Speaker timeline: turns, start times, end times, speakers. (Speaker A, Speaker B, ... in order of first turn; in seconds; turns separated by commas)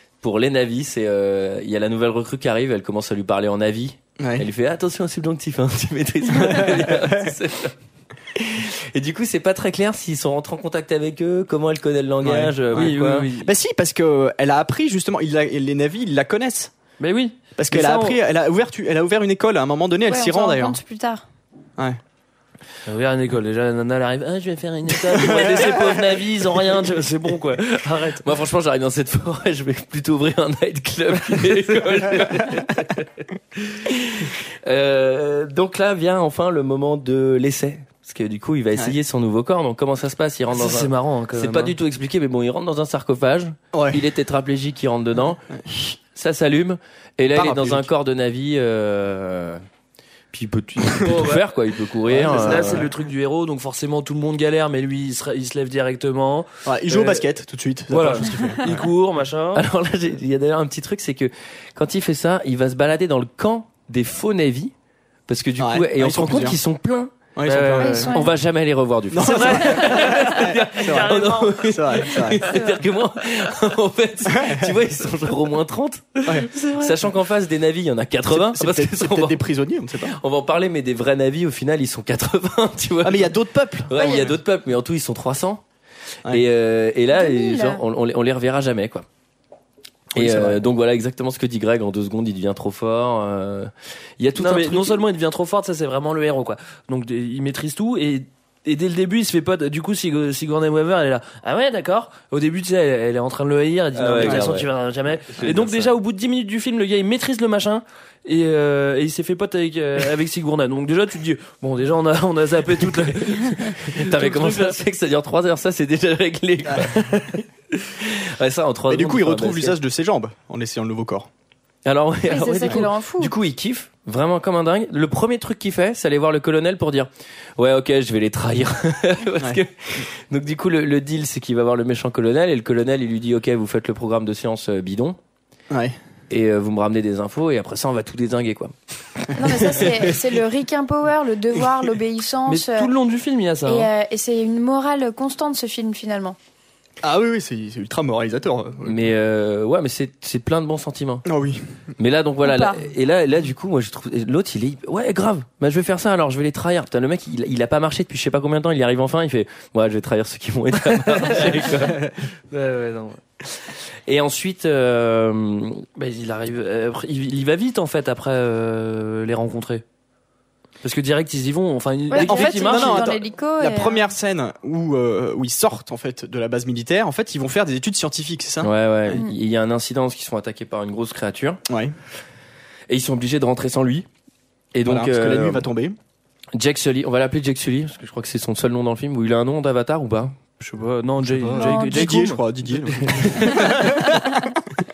Speaker A: 0.2-7.8, Speaker B: 4.2-4.5, Speaker B: 6.4-7.2, Speaker A: 8.3-13.3, Speaker B: 12.2-16.7, Speaker C: 12.7-13.5, Speaker C: 17.0-18.2, Speaker B: 17.6-20.8, Speaker D: 20.1-21.2, Speaker C: 22.9-28.2, Speaker B: 25.1-25.9, Speaker A: 28.2-32.9, Speaker A: 33.8-49.6, Speaker C: 40.5-41.8, Speaker B: 43.7-44.0, Speaker B: 47.3-47.9, Speaker A: 50.3-52.9, Speaker C: 51.0-51.5, Speaker C: 52.1-57.3, Speaker B: 52.2-52.8, Speaker B: 56.7-58.8, Speaker C: 57.9-59.6, Speaker A: 59.5-64.7, Speaker A: 65.3-79.4, Speaker B: 65.6-66.6, Speaker B: 67.3-68.1, Speaker C: 67.5-68.0, Speaker D: 67.8-68.3, Speaker B: 69.1-72.4, Speaker C: 69.2-71.8, Speaker D: 72.5-72.8, Speaker B: 74.3-74.8, Speaker B: 76.2-76.5, Speaker B: 78.3-80.1, Speaker A: 80.1-85.6, Speaker B: 83.0-84.3, Speaker D: 84.0-84.3, Speaker A: 86.3-89.0, Speaker D: 87.1-87.8, Speaker B: 90.1-90.6, Speaker A: 90.2-95.0, Speaker C: 94.4-114.8, Speaker A: 104.0-104.7, Speaker A: 105.3-106.0, Speaker A: 113.8-119.8, Speaker B: 118.9-121.3, Speaker A: 121.8-135.2, Speaker D: 122.3-123.3, Speaker B: 135.7-136.0, Speaker A: 136.3-139.8, Speaker D: 139.4-142.9, Speaker C: 142.5-143.9, Speaker D: 143.7-146.4, Speaker B: 147.0-149.1, Speaker A: 148.8-151.2, Speaker B: 151.2-151.8, Speaker A: 152.0-162.1, Speaker D: 152.4-152.8, Speaker C: 160.9-163.2, Speaker A: 164.1-165.8, Speaker C: 166.0-169.8, Speaker C: 170.8-173.1, Speaker D: 172.1-174.1, Speaker B: 172.2-178.7, Speaker A: 178.6-181.6, Speaker B: 181.7-181.9, Speaker A: 182.9-184.1, Speaker A: 184.7-185.7, Speaker B: 184.9-186.0, Speaker A: 186.6-190.4, Speaker C: 190.6-194.1, Speaker B: 191.2-194.2, Speaker D: 191.6-192.1